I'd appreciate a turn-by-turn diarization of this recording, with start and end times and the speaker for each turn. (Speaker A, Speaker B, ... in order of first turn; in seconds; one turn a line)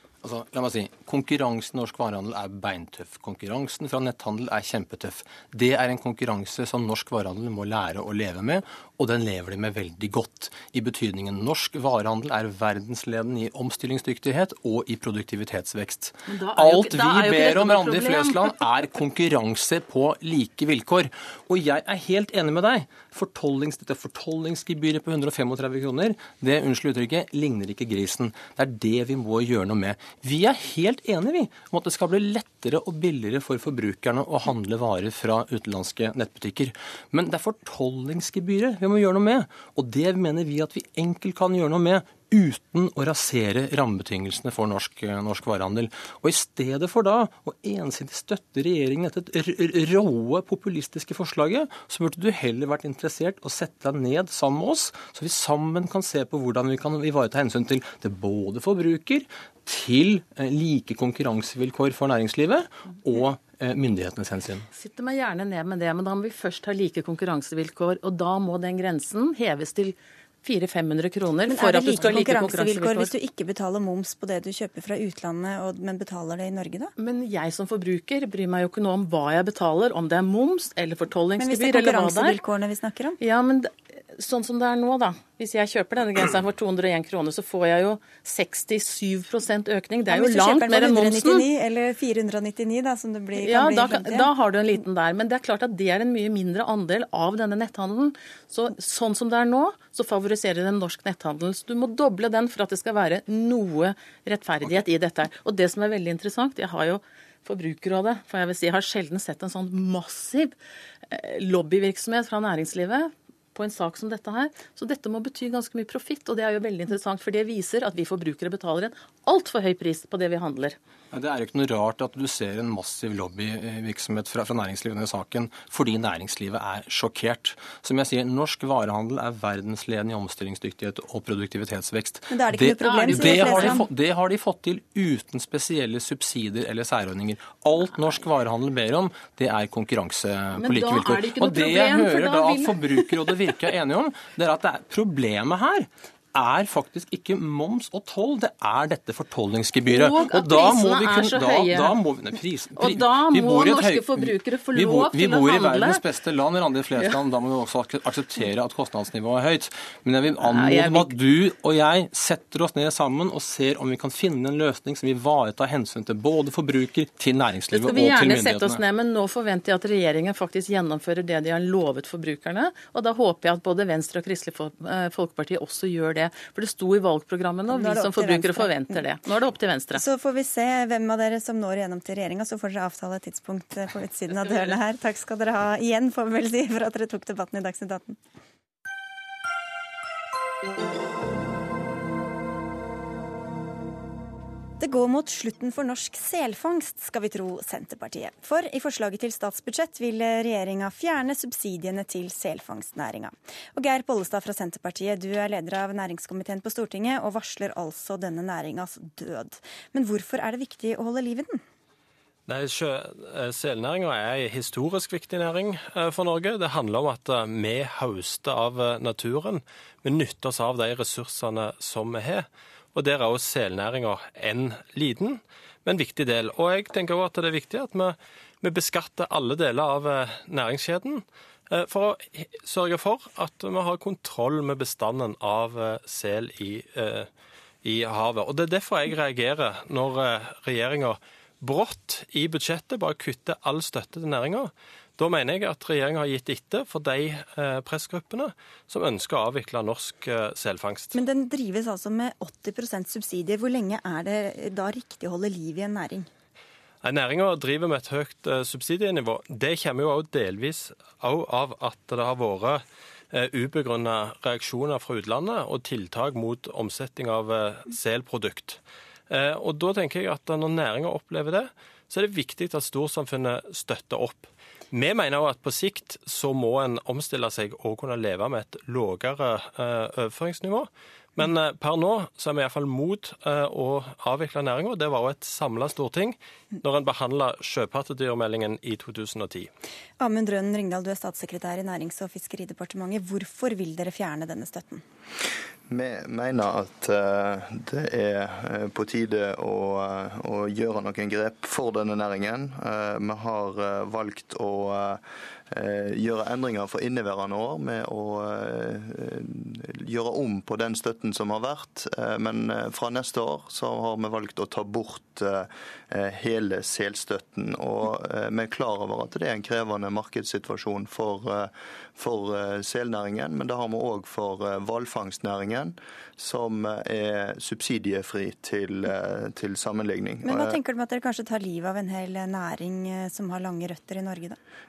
Speaker A: 0.2-64.7
Speaker B: 16.3-18.6
Speaker B: 64.7-73.1
Speaker C: 71.5-76.9
Speaker B: 77.0-82.4
Speaker C: 81.4-83.2
Speaker B: 83.2-91.5
Speaker C: 90.1-94.3
Speaker B: 93.3-110.6
Speaker B: 111.1-120.8
Speaker A: 121.1-168.8
Speaker C: 132.3-133.9
Speaker B: 132.8-133.8
Speaker B: 140.6-143.5
Speaker B: 149.9-152.0
Speaker B: 152.8-156.1
Speaker B: 160.3-161.1
Speaker B: 167.7-180.0
Speaker C: 177.7-179.0
Speaker C: 179.9-188.2
Speaker B: 184.4-184.7
Speaker C: 194.8-211.6
Speaker D: 212.5-237.3
Speaker D: 237.8-251.2
Speaker C: 251.1-256.3
Speaker D: 257.0-289.7
Speaker C: 290.2-295.0
Speaker E: 295.9-305.2
Speaker E: 305.7-330.8
Speaker C: 330.4-334.6